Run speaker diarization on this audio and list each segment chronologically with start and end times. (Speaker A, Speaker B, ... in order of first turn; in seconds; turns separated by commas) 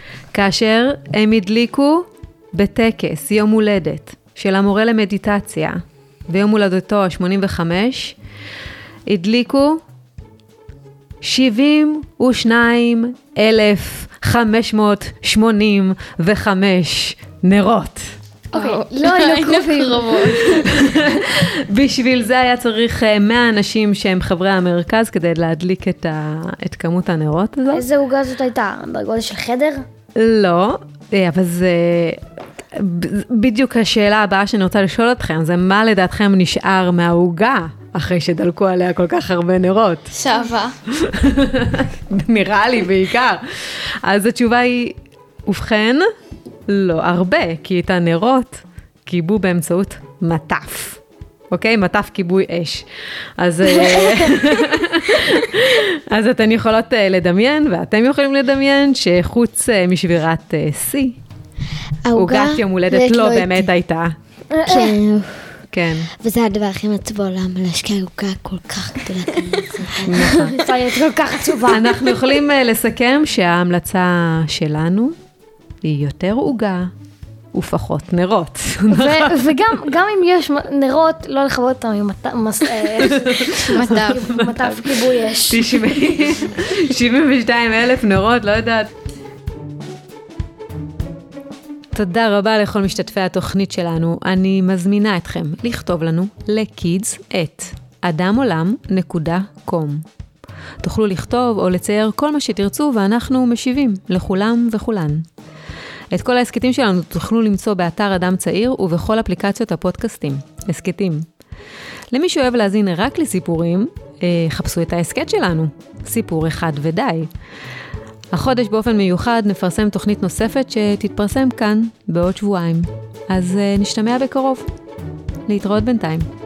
Speaker A: 0.3-8.2, Speaker A: 9.1-9.8, Speaker A: 11.2-18.1, Speaker B: 18.5-20.9, Speaker C: 18.5-20.8, Speaker A: 20.7-27.9, Speaker C: 27.7-29.9, Speaker A: 30.1-40.1, Speaker B: 40.1-40.8, Speaker A: 40.9-45.0, Speaker A: 45.5-46.0, Speaker A: 46.7-51.0, Speaker A: 51.5-52.9, Speaker A: 53.4-61.2, Speaker D: 62.0-63.7, Speaker A: 62.1-64.2, Speaker C: 64.5-65.0, Speaker D: 64.7-65.6, Speaker A: 65.7-66.1, Speaker D: 66.2-70.6, Speaker A: 70.1-70.5, Speaker C: 70.5-72.2, Speaker A: 71.7-75.2, Speaker A: 75.8-76.9, Speaker A: 77.5-79.7, Speaker C: 78.9-86.0, Speaker A: 83.0-83.6, Speaker B: 83.7-84.2, Speaker A: 84.1-88.9, Speaker A: 92.0-100.0, Speaker A: 100.8-105.2, Speaker A: 106.1-111.3, Speaker A: 112.1-117.3, Speaker A: 118.3-124.7, Speaker A: 125.5-126.3